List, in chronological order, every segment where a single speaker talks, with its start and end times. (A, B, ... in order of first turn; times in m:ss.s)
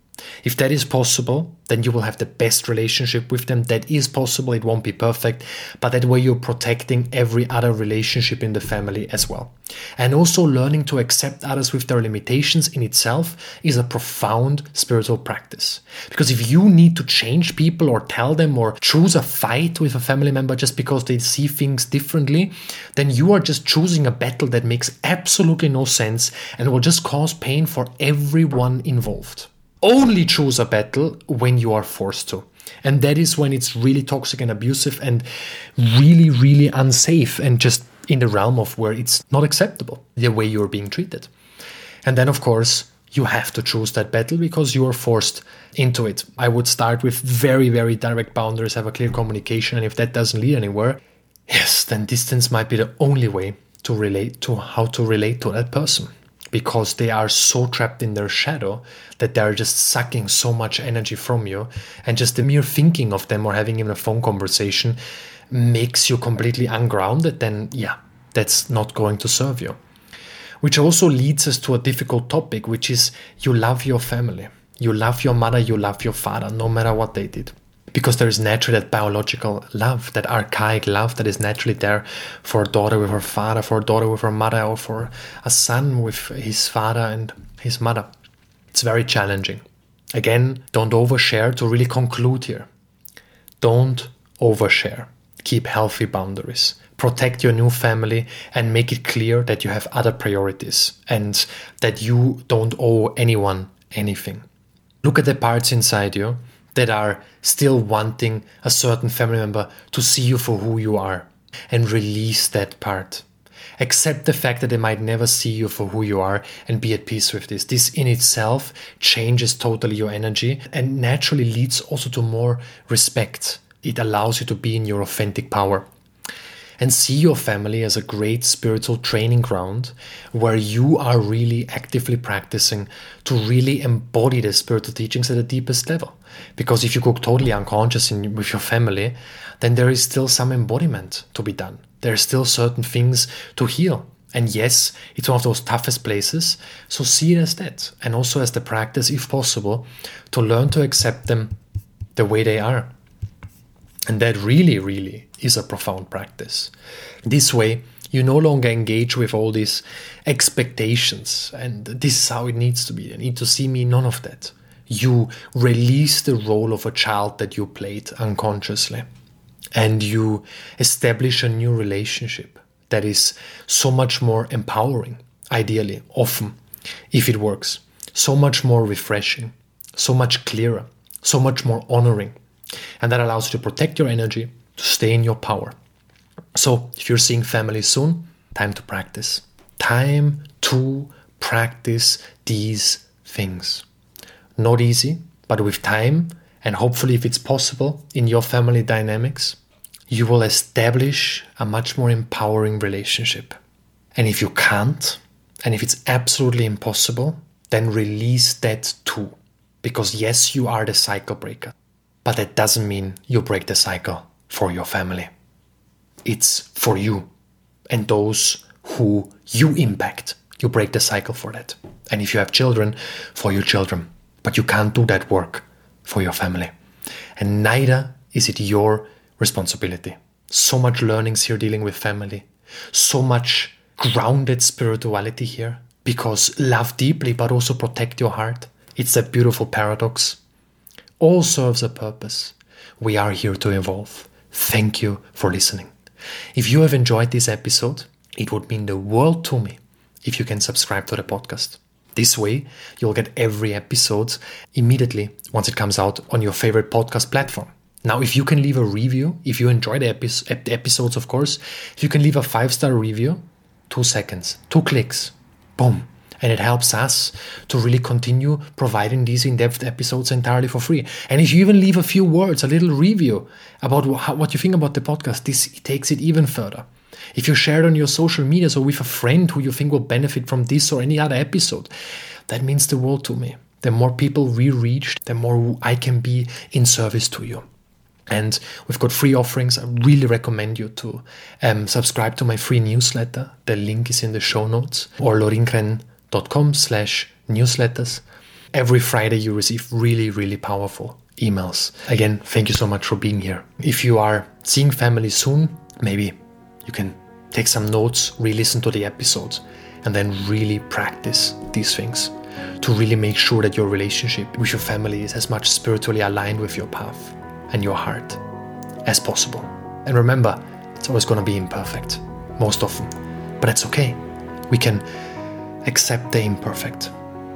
0:00.4-0:35.3 A
0:35.8-0:41.3 A
0:42.0-1:05.0 A
1:05.5-1:09.8 A
1:10.6-1:28.1 A
1:28.7-1:32.7 A
1:33.6-1:44.4 A
1:45.0-1:53.2 A
1:53.8-2:05.9 A
2:06.8-2:31.5 A
2:32.2-2:32.9 A
2:34.1-2:36.7 A
2:37.3-2:49.0 A
2:49.8-2:56.6 A
2:57.1-3:02.4 A
3:03.0-3:05.8 A
3:06.6-3:13.9 A
3:14.6-3:19.6 A
3:20.1-3:23.6 A
3:24.2-3:35.3 A
3:36.2-3:37.3 A
3:37.9-3:46.7 A
3:47.4-4:00.4 A
4:01.2-4:05.9 A
4:06.6-4:41.9 A
4:42.5-4:47.6 A
4:48.3-5:18.4 A
5:19.0-5:25.0 A
5:25.8-5:27.1 A